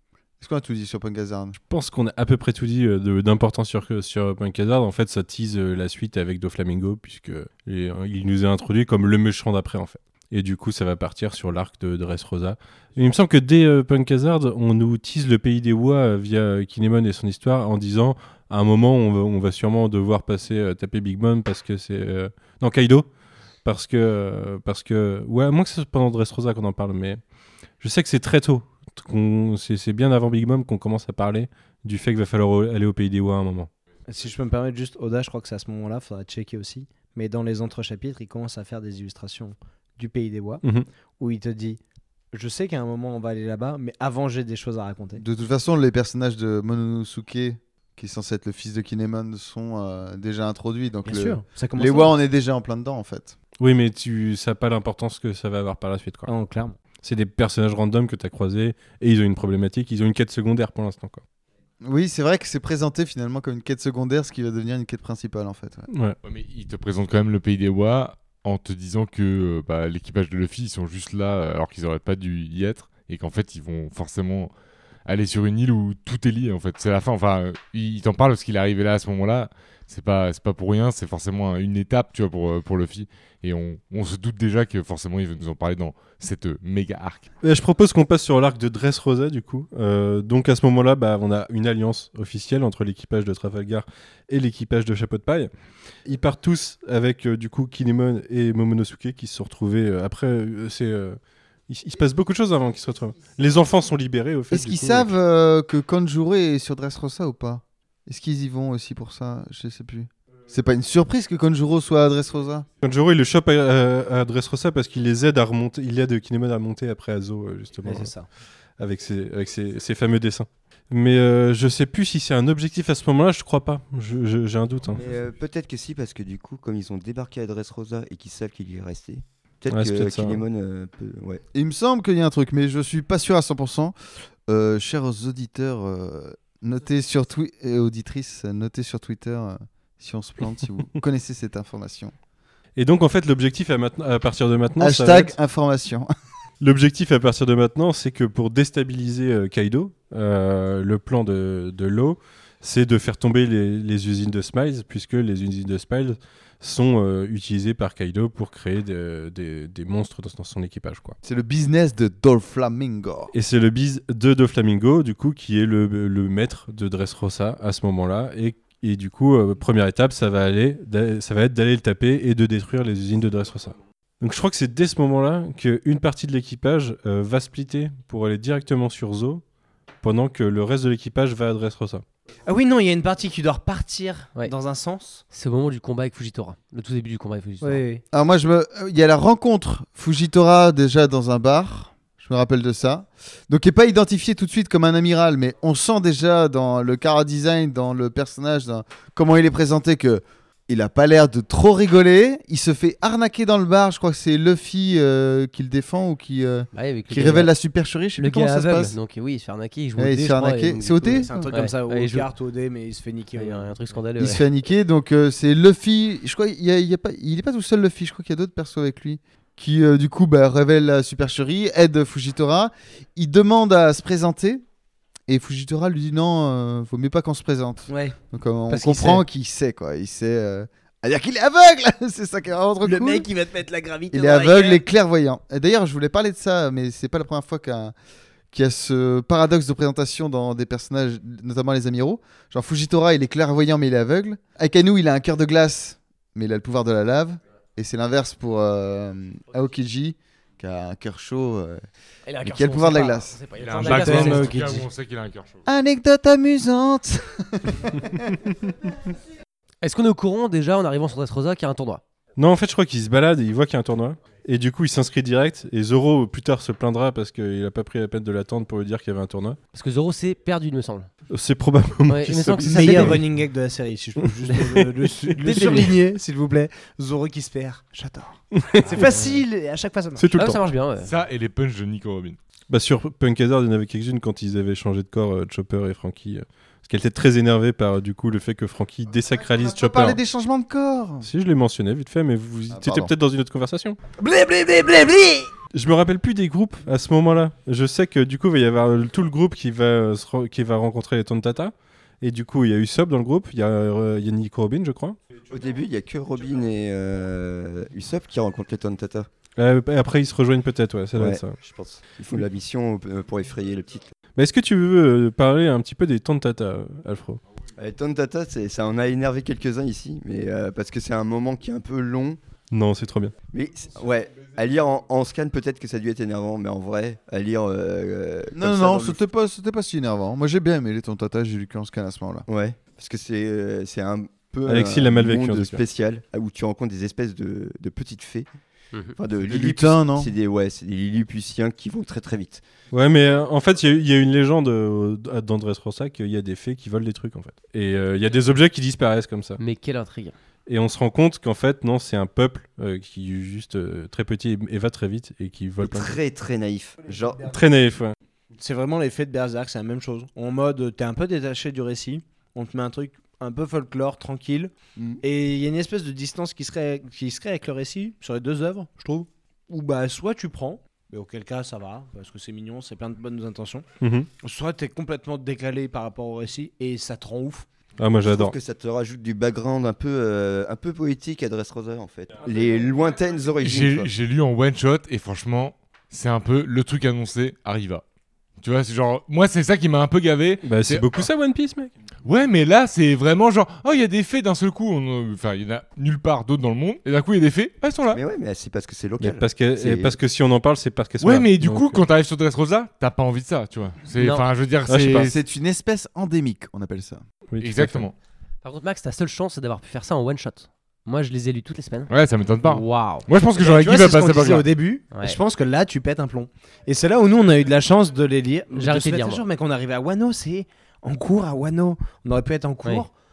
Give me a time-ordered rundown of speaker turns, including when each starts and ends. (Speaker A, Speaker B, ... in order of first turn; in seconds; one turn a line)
Speaker A: 0.4-1.6
Speaker B: 1.7-23.1
Speaker B: 23.6-27.2
Speaker B: 27.8-33.7
Speaker C: 34.1-40.6
Speaker B: 40.6-40.9
Speaker C: 41.2-41.8
Speaker C: 42.3-45.2
Speaker A: 45.2-53.4
Speaker C: 51.0-52.1
Speaker B: 53.6-56.3
Speaker C: 56.3-56.8
Speaker B: 57.0-61.2
Speaker A: 61.8-65.9
Speaker B: 65.9-66.2
Speaker D: 66.2-74.5
Speaker D: 75.0-87.3
Speaker B: 87.4-95.5
Speaker B: 96.0-105.1
Speaker A: 104.5-112.7
Speaker B: 112.8-118.1
Speaker C: 117.8-118.3
Speaker B: 118.8-125.0
Speaker E: 125.0-131.4
Speaker B: 129.7-130.4
Speaker A: 131.5-133.9
Speaker A: 134.5-142.1
Speaker B: 142.8-145.3
Speaker A: 144.8-146.1
Speaker B: 146.6-161.2
Speaker A: 161.2-163.3
Speaker B: 163.3-179.4
Speaker B: 180.0-182.0
Speaker C: 182.4-185.2
Speaker F: 185.3-187.8
Speaker C: 187.6-188.0
Speaker A: 188.1-208.9
Speaker F: 206.7-207.5
Speaker F: 208.2-212.3
Speaker A: 210.0-211.5
Speaker C: 211.0-213.8
Speaker F: 213.4-214.4
Speaker A: 214.2-224.6
Speaker A: 225.3-233.3
Speaker C: 227.9-228.2
Speaker C: 228.7-229.2
Speaker C: 232.8-234.8
Speaker A: 234.1-237.9
Speaker A: 238.5-251.8
Speaker F: 252.3-254.8
Speaker A: 252.4-253.4
Speaker D: 253.6-255.6
Speaker C: 253.8-254.8
Speaker A: 255.7-258.4
Speaker F: 259.8-262.0
Speaker B: 262.4-269.6
Speaker F: 269.7-271.1
Speaker B: 271.3-273.2
Speaker F: 272.1-273.2
Speaker C: 272.6-280.3
Speaker B: 275.3-275.9
Speaker F: 275.5-275.9
Speaker B: 278.5-279.3
Speaker B: 280.2-280.6
Speaker F: 280.4-281.1
Speaker D: 281.0-282.4
Speaker B: 282.7-290.2
Speaker A: 289.5-291.3
Speaker B: 291.2-294.0
Speaker A: 292.7-293.1
Speaker A: 294.2-295.5
Speaker B: 295.7-305.2
Speaker E: 305.5-309.3
Speaker B: 309.6-311.6
Speaker E: 311.2-314.1
Speaker B: 314.4-317.4
Speaker E: 317.8-322.4
Speaker B: 322.7-323.4
Speaker E: 323.5-329.2
Speaker A: 328.5-332.4
Speaker E: 332.5-338.5
Speaker B: 334.7-335.8
Speaker E: 339.2-342.6
Speaker A: 339.4-340.3
Speaker B: 342.9-349.6
Speaker F: 349.6-350.3
Speaker B: 350.7-356.2
Speaker E: 355.8-357.4
Speaker B: 357.4-358.1
Speaker C: 358.6-373.9
Speaker B: 374.0-374.3
Speaker C: 374.4-377.7
Speaker B: 378.0-378.6
Speaker E: 378.2-384.1
Speaker D: 383.6-388.0
Speaker D: 388.6-391.2
Speaker B: 390.6-391.9
Speaker D: 392.2-398.2
Speaker E: 398.1-400.2
Speaker B: 399.2-402.0
Speaker D: 401.2-405.4
Speaker F: 404.2-404.5
Speaker B: 404.9-405.3
Speaker A: 405.2-407.2
Speaker B: 407.5-408.1
Speaker D: 407.6-408.1
Speaker F: 408.6-412.1
Speaker D: 412.1-414.7
Speaker F: 412.6-413.3
Speaker C: 413.6-423.1
Speaker F: 415.1-415.4
Speaker F: 418.7-419.4